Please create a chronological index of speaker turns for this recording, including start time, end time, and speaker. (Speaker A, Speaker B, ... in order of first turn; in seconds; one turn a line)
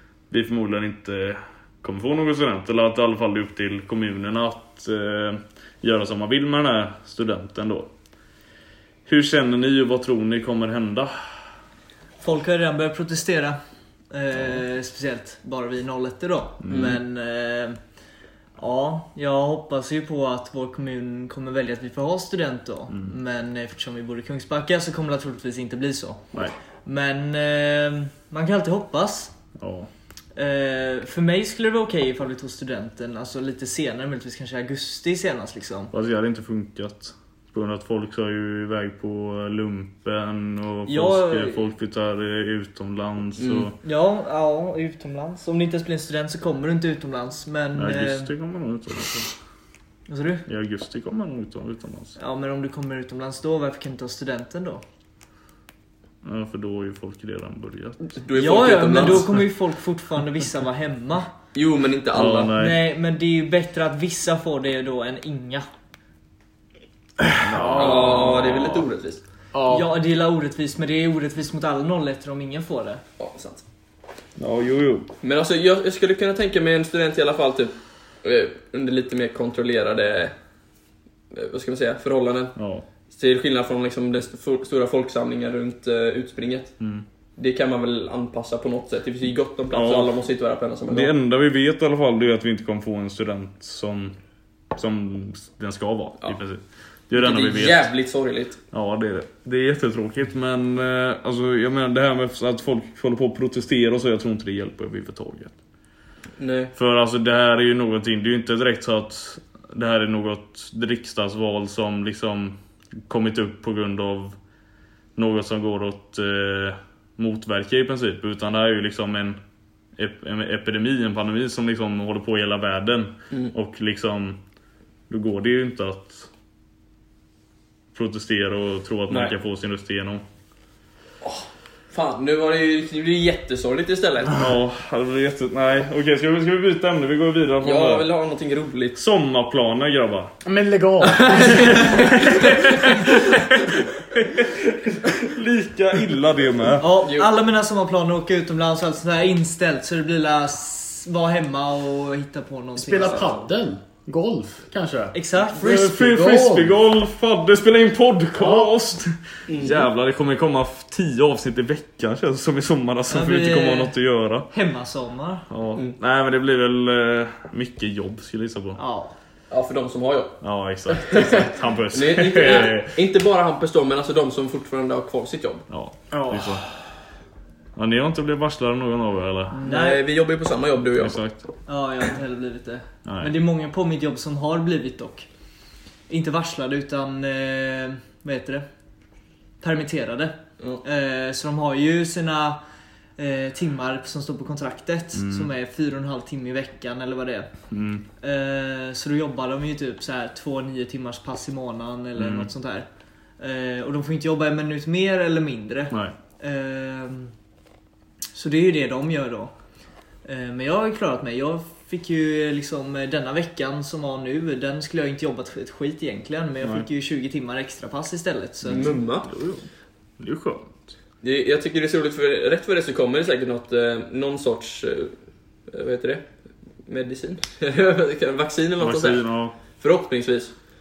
Speaker A: 0.3-7.9
Speaker A: 9.1-11.1
Speaker B: 12.2-13.6
Speaker B: 14.1-17.8
Speaker A: 16.6-17.0
Speaker C: 16.7-17.0
Speaker B: 18.6-26.2
Speaker B: 26.8-29.3
Speaker A: 29.6-29.9
Speaker B: 30.4-35.9
Speaker A: 35.9-43.8
Speaker B: 40.9-41.6
Speaker C: 43.4-43.7
Speaker B: 43.8-48.3
Speaker A: 47.7-49.3
Speaker B: 50.1-50.4
Speaker A: 50.5-52.2
Speaker B: 52.2-54.8
Speaker A: 56.2-58.1
Speaker C: 58.1-59.3
Speaker B: 58.3-61.3
Speaker C: 61.5-62.5
Speaker A: 62.1-62.8
Speaker B: 62.5-65.7
Speaker D: 67.2-68.3
Speaker A: 67.4-68.8
Speaker C: 67.7-69.2
Speaker D: 69.5-69.9
Speaker B: 69.7-73.0
Speaker C: 73.2-73.6
Speaker A: 74.4-75.1
Speaker C: 75.2-80.3
Speaker C: 81.3-82.5
Speaker A: 82.5-82.8
Speaker C: 83.1-86.8
Speaker C: 87.4-91.1
Speaker A: 89.7-90.1
Speaker A: 90.9-94.2
Speaker A: 94.7-97.9
Speaker C: 97.1-98.6
Speaker A: 98.7-105.5
Speaker C: 106.4-106.7
Speaker A: 106.7-114.3
Speaker A: 115.2-119.4
Speaker A: 120.0-124.4
Speaker A: 125.1-126.3
Speaker A: 127.9-130.2
Speaker C: 129.1-129.3
Speaker C: 131.2-134.4
Speaker A: 134.3-138.1
Speaker C: 137.6-139.0
Speaker A: 138.9-140.3
Speaker D: 140.4-142.7
Speaker C: 141.0-143.2
Speaker A: 142.1-146.9
Speaker B: 146.8-153.4
Speaker C: 147.0-147.3
Speaker D: 152.8-156.8
Speaker B: 155.1-155.9
Speaker A: 155.6-164.5
Speaker D: 158.4-158.7
Speaker C: 159.5-159.9
Speaker B: 163.1-163.9
Speaker B: 164.5-165.4
Speaker A: 165.5-168.8
Speaker B: 168.8-169.1
Speaker C: 169.5-175.6
Speaker A: 170.4-172.9
Speaker A: 175.7-176.6
Speaker D: 176.1-176.6
Speaker A: 177.8-179.6
Speaker B: 179.5-180.0
Speaker C: 179.6-181.2
Speaker A: 181.0-181.4
Speaker B: 181.7-185.3
Speaker A: 183.1-183.3
Speaker B: 186.1-188.7
Speaker B: 189.6-192.6
Speaker B: 193.2-197.5
Speaker A: 195.1-195.5
Speaker A: 197.7-198.0
Speaker B: 198.2-202.9
Speaker A: 202.2-202.5
Speaker B: 203.4-207.3
Speaker B: 208.3-209.5
Speaker B: 210.2-218.9
Speaker C: 218.7-219.3
Speaker A: 218.7-219.7
Speaker A: 220.2-220.8
Speaker C: 221.2-225.1
Speaker C: 225.7-226.2
Speaker C: 226.8-229.2
Speaker A: 228.8-229.5
Speaker C: 229.8-230.5